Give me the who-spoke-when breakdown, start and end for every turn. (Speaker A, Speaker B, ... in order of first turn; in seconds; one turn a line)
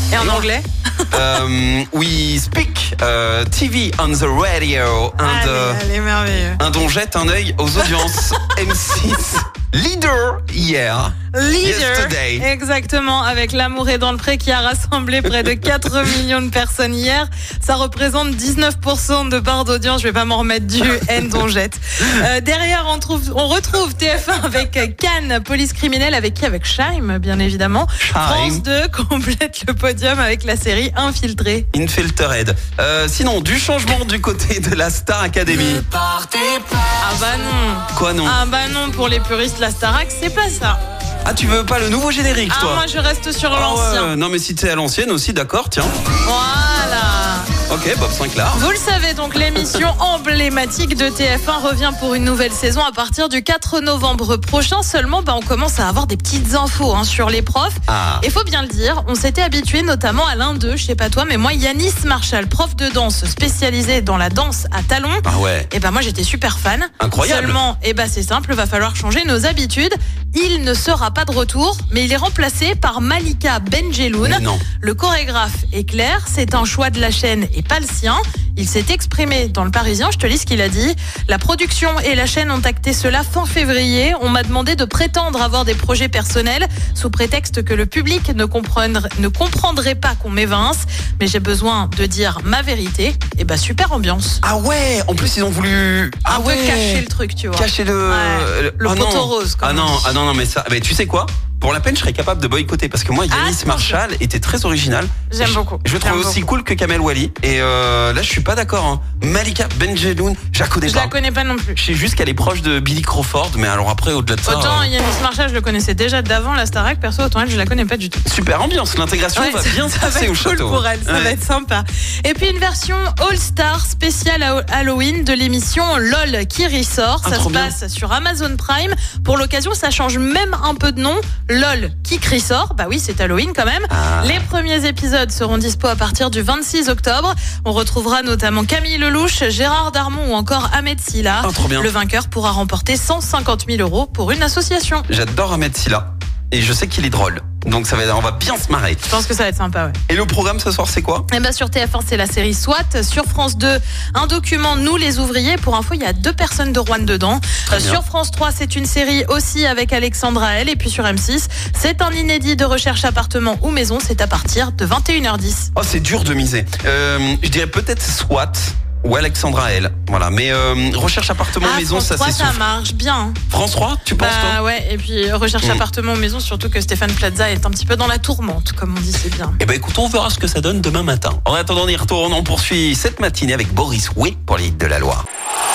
Speaker A: 0.1-1.3
Speaker B: 0.2-0.5
Speaker B: 1.1-5.8
Speaker A: 5.2-6.6
Speaker B: 6.6-12.5
Speaker A: 7.8-8.5
Speaker A: 11.3-31.7
Speaker B: 28.0-28.6
Speaker B: 31.7-35.9
Speaker A: 36.4-40.8
Speaker B: 37.9-38.4
Speaker B: 41.2-42.8
Speaker A: 42.5-44.1
Speaker B: 43.5-46.0
Speaker A: 46.2-47.5
Speaker B: 47.7-48.6
Speaker A: 48.5-94.4
Speaker B: 57.9-58.2
Speaker B: 65.2-65.7
Speaker B: 67.0-67.6
Speaker B: 74.2-74.6
Speaker B: 94.4-111.1
Speaker A: 96.2-100.2
Speaker A: 103.3-104.0
Speaker A: 105.3-106.5
Speaker A: 110.8-111.8
Speaker B: 111.8-114.9
Speaker A: 114.5-118.2
Speaker B: 118.2-121.3
Speaker A: 119.3-145.1
Speaker B: 127.2-127.7
Speaker B: 133.9-134.4
Speaker B: 141.4-141.9
Speaker B: 145.1-149.2
Speaker A: 149.1-150.0
Speaker B: 150.1-151.3
Speaker A: 151.3-165.7
Speaker B: 157.7-158.0
Speaker B: 165.8-172.6
Speaker A: 171.6-173.4
Speaker B: 173.5-174.6
Speaker A: 174.2-179.6
Speaker B: 179.6-185.2